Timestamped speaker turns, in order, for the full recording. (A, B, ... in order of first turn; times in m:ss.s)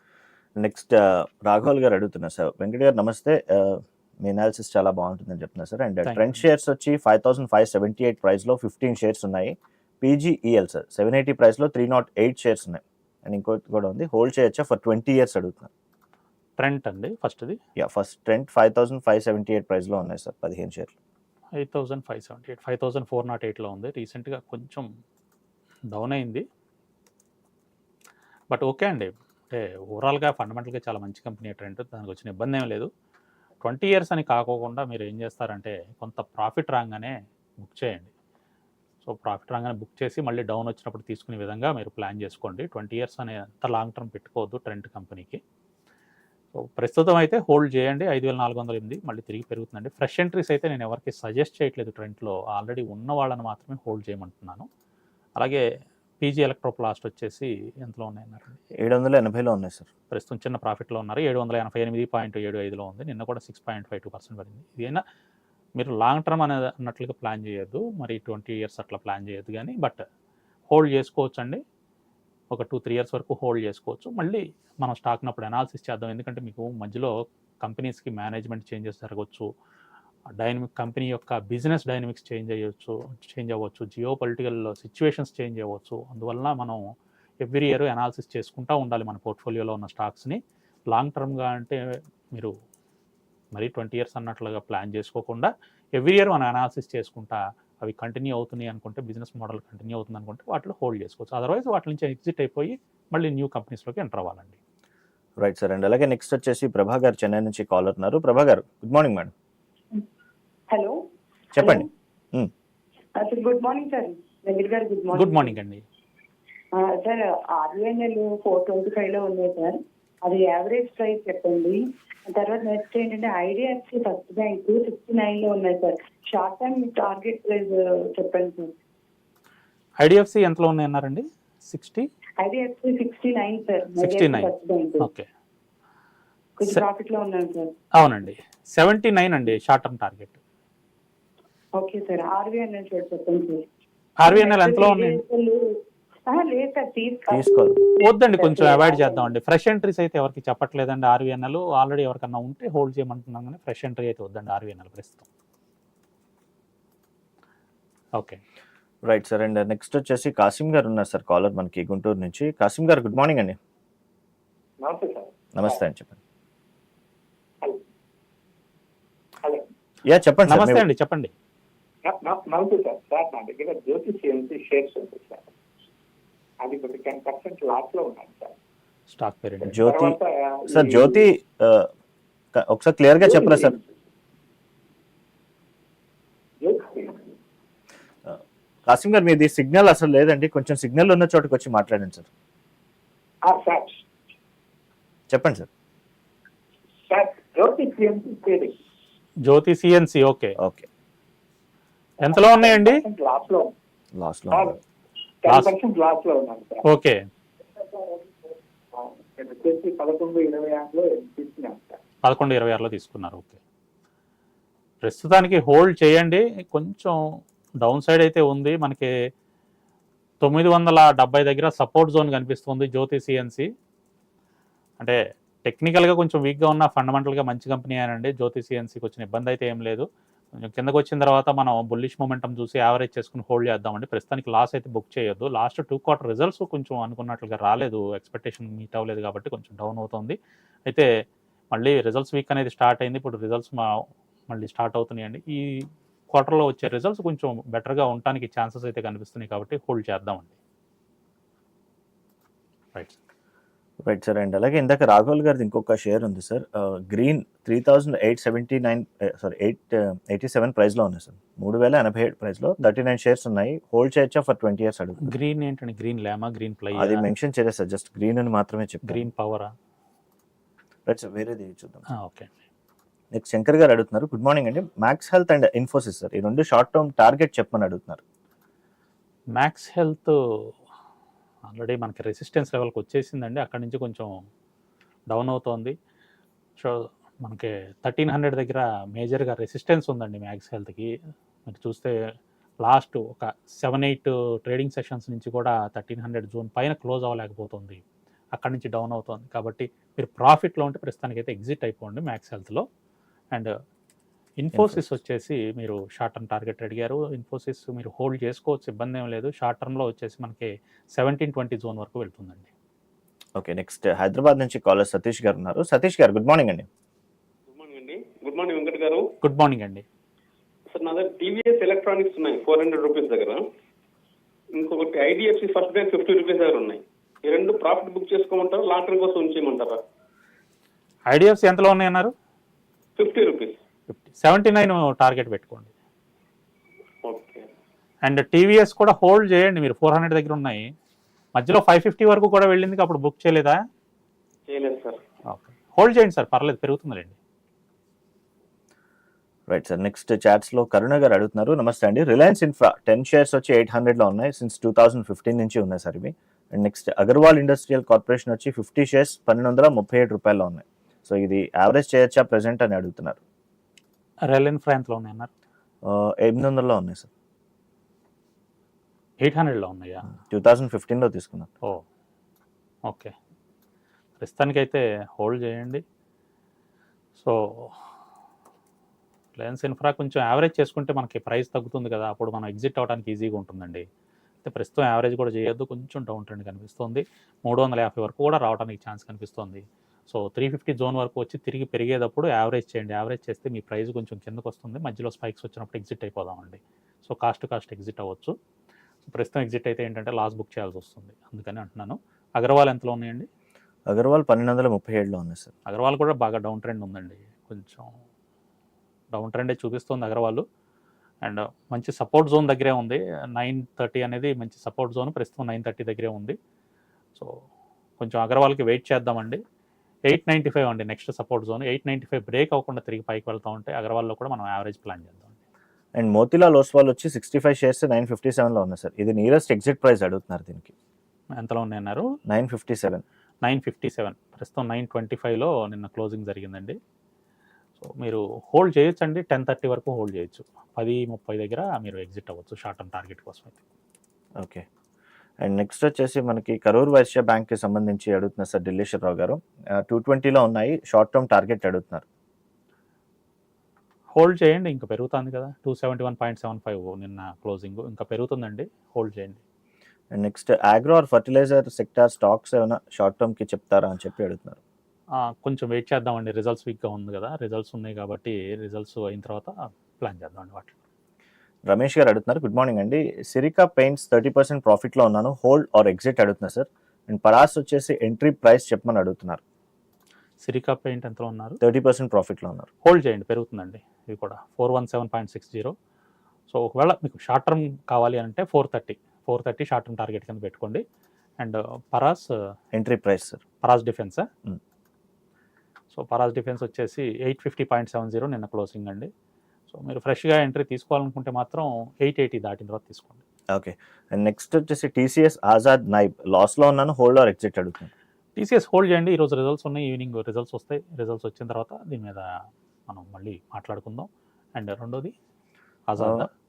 0:00.6-0:15.7 A
0:06.0-0:06.4 B
0:16.6-0:17.6 B
0:17.8-0:20.9 A
0:21.6-0:24.9 B
0:25.9-0:26.4 B
0:28.5-0:32.9 B
0:33.6-0:38.1 B
0:39.0-0:45.4 B
0:46.5-0:54.7 B
0:56.2-0:58.6 B
0:58.8-0:59.9 A
1:00.1-1:05.0 B
1:05.8-1:10.0 B
1:10.7-1:11.6 B
1:12.5-1:19.5 B
1:20.4-1:26.8 B
1:27.4-1:31.8 B
1:33.5-1:44.6 B
1:45.4-1:49.3 A
1:50.7-1:51.0 C
1:51.5-1:52.5 A
1:51.6-1:51.9 C
1:53.2-1:55.5 C
1:55.1-1:55.8 B
1:56.7-2:08.7 C
2:10.0-2:12.1 B
2:12.4-2:15.1 C
2:14.0-2:15.3 B
2:16.6-2:17.7 C
2:18.0-2:20.4 B
2:21.8-2:23.6 C
2:24.2-2:25.2 B
2:24.2-2:25.8 C
2:26.3-2:27.4 C
2:27.3-2:27.8 A
2:28.0-2:35.3 B
2:28.4-2:29.3 C
2:39.0-2:43.6 A
2:44.8-2:45.8 D
2:45.5-2:46.2 A
2:50.0-2:50.8 A
2:50.5-2:51.3 B
2:52.0-2:55.4 D
2:56.6-2:58.5 D
2:59.1-2:59.8 B
2:59.7-3:01.3 D
2:59.7-3:01.9 A
3:02.5-3:03.8 A
3:03.2-3:03.8 D
3:06.6-3:07.2 D
3:08.2-3:12.3 A
3:13.4-3:14.0 D
3:15.3-3:15.7 A
3:17.1-3:18.7 D
3:19.4-3:20.6 B
3:20.6-3:20.9 A
3:22.2-3:23.0 B
3:22.2-3:23.7 D
3:24.1-3:24.8 A
3:24.5-3:24.8 D
3:25.4-3:26.8 D
3:26.8-3:27.2 B
3:27.8-3:32.0 D
3:32.2-3:33.6 B
3:35.0-3:37.2 B
3:37.8-3:39.1 B
3:40.4-3:43.7 B
3:45.0-4:00.4 B
4:01.7-4:03.9 B
4:04.5-4:10.6 B
4:14.0-4:25.3 A
4:25.2-4:27.3 B
4:27.0-4:29.2 A
4:29.0-4:29.7 B
4:31.1-4:32.0 A
4:32.1-4:32.5 B
4:33.3-4:38.2 A
4:39.6-4:40.4 B
4:41.7-4:44.3 B
4:45.3-4:46.0 B
4:46.8-4:51.1 B
4:51.6-4:52.1 B
4:52.8-4:58.0 B
4:58.6-5:02.8 B
5:04.6-5:12.7 B
5:04.7-5:05.0 A
5:13.6-5:16.9 A
5:17.7-5:19.3 E
5:19.4-5:20.0 B
5:20.9-5:23.6 E
5:24.8-5:30.0 E
5:31.3-5:32.3 B
5:33.2-5:33.8 E
5:34.1-5:35.9 B
5:37.2-5:37.6 E
5:38.2-5:40.8 B
5:41.5-5:43.8 B
5:44.7-5:45.2 E
5:45.5-5:47.4 B
5:49.7-6:03.4 A
6:04.5-6:05.5 B
6:06.0-6:07.3 A
6:09.4-6:10.3 B
6:10.5-6:11.7 A
6:13.1-6:13.3 B
6:14.4-6:16.0 B
6:17.4-6:18.0 B
6:19.6-6:24.0 B
6:24.6-6:38.5 B
6:39.2-6:43.5 B
6:44.1-6:45.7 A
6:45.9-6:48.1 B
6:49.3-6:50.6 B
6:51.4-6:56.6 B
6:58.2-6:59.6 B
7:00.3-7:05.6 B
7:06.2-7:10.9 A
7:11.6-7:12.3 B
7:12.5-7:13.2 A
7:13.6-7:17.0 B
7:18.0-7:23.8 B
7:24.6-7:24.8 A
7:25.6-7:32.2 A
7:34.3-7:39.6 B
7:40.3-7:44.8 A
7:45.4-7:50.9 B
7:51.9-7:59.6 A
8:00.6-8:01.8 B
8:01.8-8:02.9 A
8:03.0-8:05.9 B
8:06.7-8:11.0 B
8:11.6-8:12.4 B
8:12.9-8:13.6 A
8:13.8-8:14.5 B
8:16.1-8:19.3 B
8:19.9-8:23.4 B
8:23.7-8:28.1 A
8:28.6-8:32.4 B
8:33.1-8:35.3 B
8:36.1-8:36.5 B
8:36.2-8:36.5 A